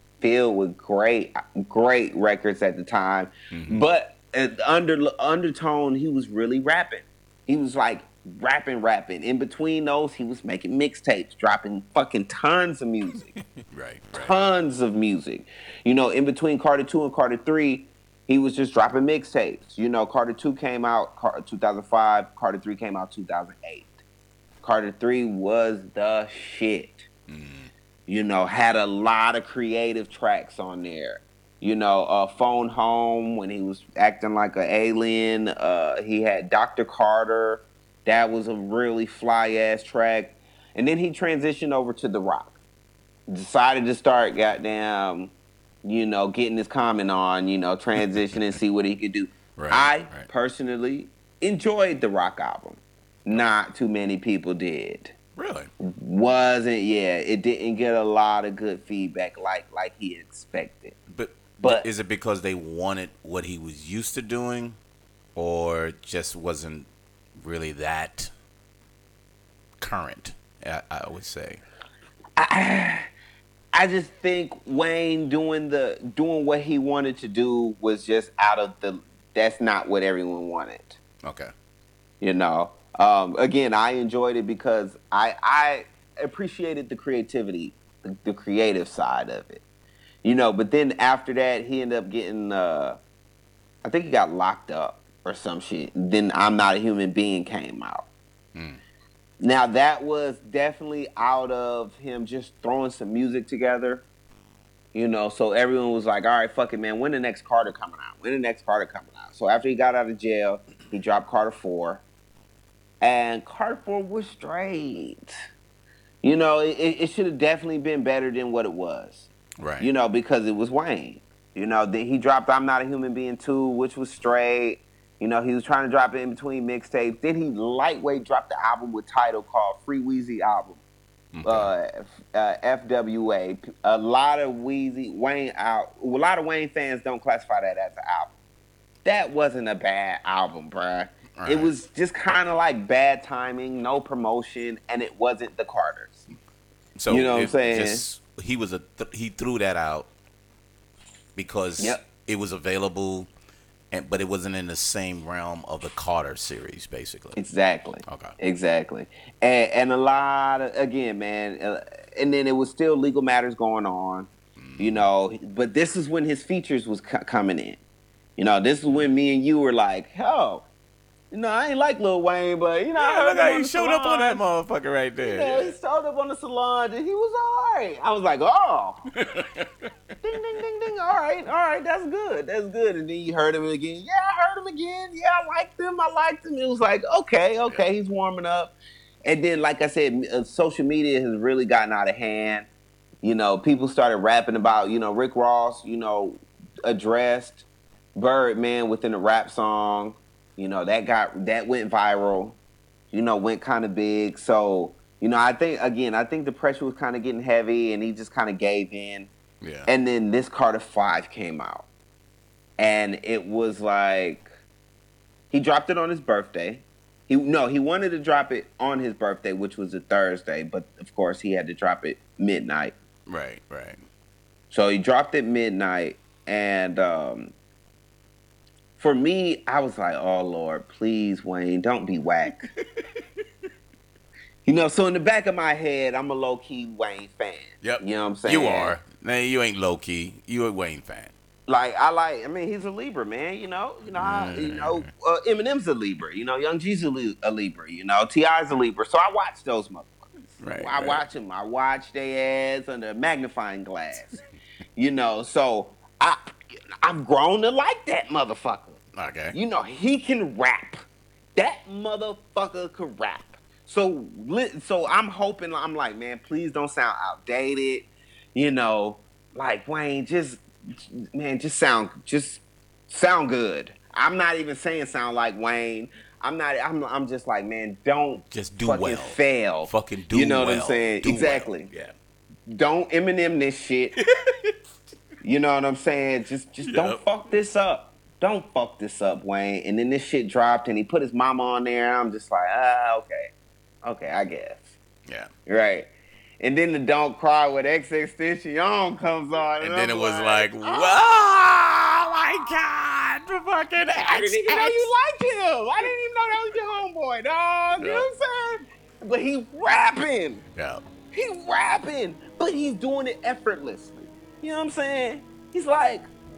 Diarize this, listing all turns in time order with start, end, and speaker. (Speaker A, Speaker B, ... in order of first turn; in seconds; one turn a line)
Speaker A: 0.2-13.3
Speaker B: 3.5-3.8
Speaker B: 13.4-14.3
Speaker A: 14.2-24.0
Speaker A: 24.6-27.1
Speaker B: 27.3-27.7
Speaker A: 28.1-42.6
Speaker A: 43.3-45.3
Speaker A: 45.8-55.1
Speaker B: 49.6-50.3
Speaker B: 55.4-55.7
Speaker A: 55.8-61.0
Speaker B: 61.1-64.8
Speaker A: 61.6-61.9
Speaker B: 65.3-68.3
Speaker B: 69.8-71.6
Speaker A: 72.4-73.1
Speaker A: 73.7-81.0
Speaker B: 81.2-81.5
Speaker A: 82.2-89.6
Speaker A: 90.2-93.0
Speaker A: 93.8-98.1
Speaker B: 98.5-98.8
Speaker A: 99.4-104.0
Speaker A: 104.9-112.0
Speaker A: 113.0-115.3
Speaker A: 116.2-119.3
Speaker B: 119.6-119.9
Speaker A: 119.8-130.8
Speaker B: 131.3-131.7
Speaker A: 131.4-138.3
Speaker A: 139.1-146.2
Speaker B: 141.3-141.8
Speaker B: 147.0-150.1
Speaker A: 147.1-148.0
Speaker B: 151.4-153.3
Speaker A: 151.8-152.1
Speaker B: 153.9-157.4
Speaker A: 157.4-167.8
Speaker B: 158.1-158.3
Speaker B: 164.6-165.1
Speaker A: 168.4-170.7
Speaker A: 171.3-174.4
Speaker B: 173.0-175.8
Speaker A: 175.2-179.1
Speaker B: 179.2-179.9
Speaker A: 180.2-188.7
Speaker A: 189.2-192.7
Speaker A: 193.2-202.6
Speaker A: 203.1-209.3
Speaker B: 209.6-209.9
Speaker A: 209.9-211.9
Speaker A: 212.8-214.5
Speaker A: 215.5-222.9
Speaker B: 223.3-224.0
Speaker A: 224.7-227.5
Speaker A: 229.0-232.6
Speaker A: 234.7-239.0
Speaker B: 237.8-241.3
Speaker A: 241.7-254.4
Speaker B: 244.2-245.1
Speaker B: 250.6-251.2
Speaker A: 255.0-256.4
Speaker A: 257.0-259.0
Speaker B: 259.1-259.6
Speaker A: 259.5-261.0
Speaker A: 261.6-281.9
Speaker B: 278.5-282.1
Speaker A: 282.7-284.2
Speaker B: 284.2-284.7
Speaker A: 285.4-293.5
Speaker B: 286.9-287.2
Speaker A: 294.0-294.9
Speaker A: 295.7-301.2
Speaker B: 299.8-305.1
Speaker A: 304.2-310.6
Speaker B: 308.0-308.3
Speaker B: 310.8-311.0
Speaker A: 311.3-316.3